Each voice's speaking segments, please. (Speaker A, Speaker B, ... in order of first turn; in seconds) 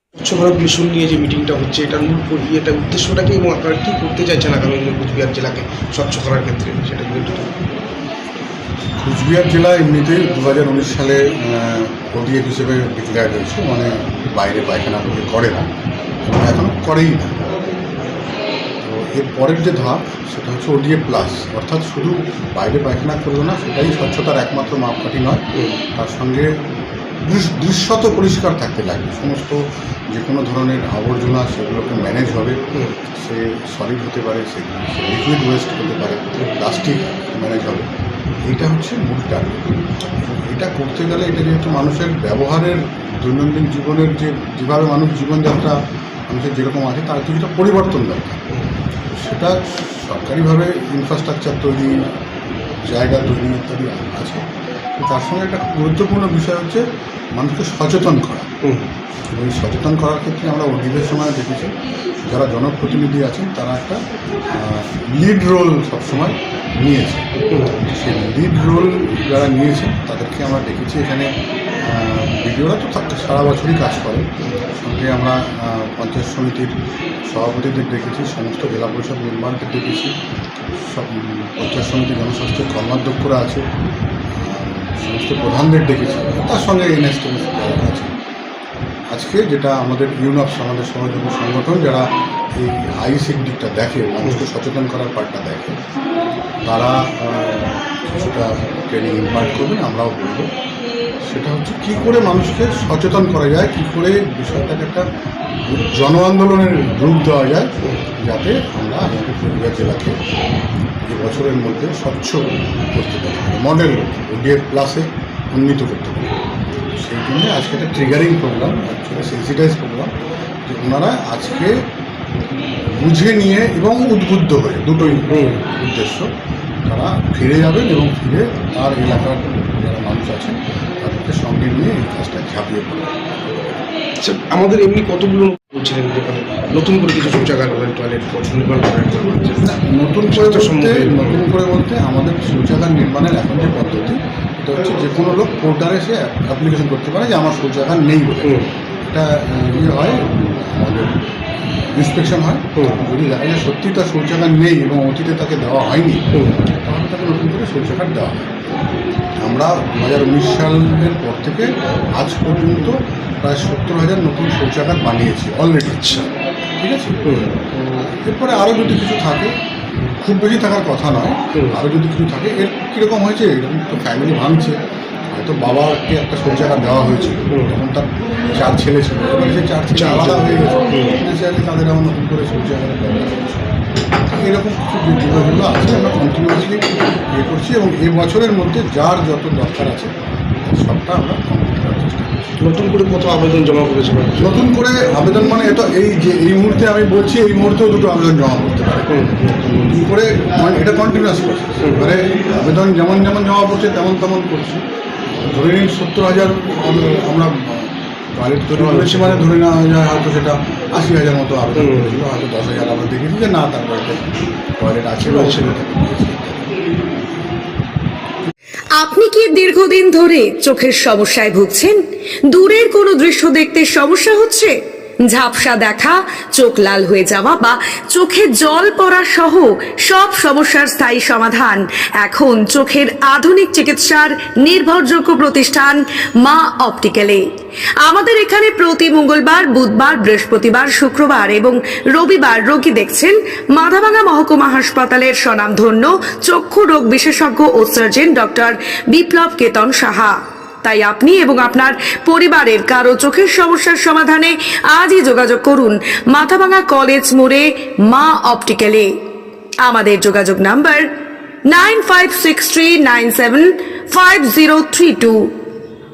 Speaker A: 0.2-7.5, 25.5-25.8, 67.5-67.8, 125.3-125.6, 134.2-139.7, 140.2-141.4, 148.4-148.7, 152.8-153.0, 165.9-166.3, 167.2-167.5, 171.5-171.8, 177.5-177.8, 179.9-181.2, 192.6-194.6, 199.1-199.5, 201.8-202.1, 208.7-209.5, 211.8-212.2, 215.2-215.7
Speaker B: 9.0-15.7, 16.2-17.5, 18.8-26.5, 27.2-32.6, 33.1-37.9, 38.4-39.6, 40.2-45.8, 46.3-48.4, 49.1-52.0, 52.9-54.5, 55.0-58.5, 59.3-61.7, 62.2-71.3, 71.8-83.6, 84.4-88.1, 89.1-92.1, 92.6-95.8, 96.6-100.5, 101.3-105.0, 105.7-110.1, 111.1-116.3, 117.0-120.1, 120.7-121.8, 122.9-126.3, 126.8-133.1, 139.6-151.1, 151.9-158.5, 159.4-166.1, 166.8-169.5, 170.2-174.8, 175.3-183.7, 184.2-192.6, 194.4-204.8, 205.4-214.2, 214.8-216.7
Speaker C: 218.9-224.7, 225.3-237.4, 238.0-259.1, 259.8-261.1, 261.7-265.5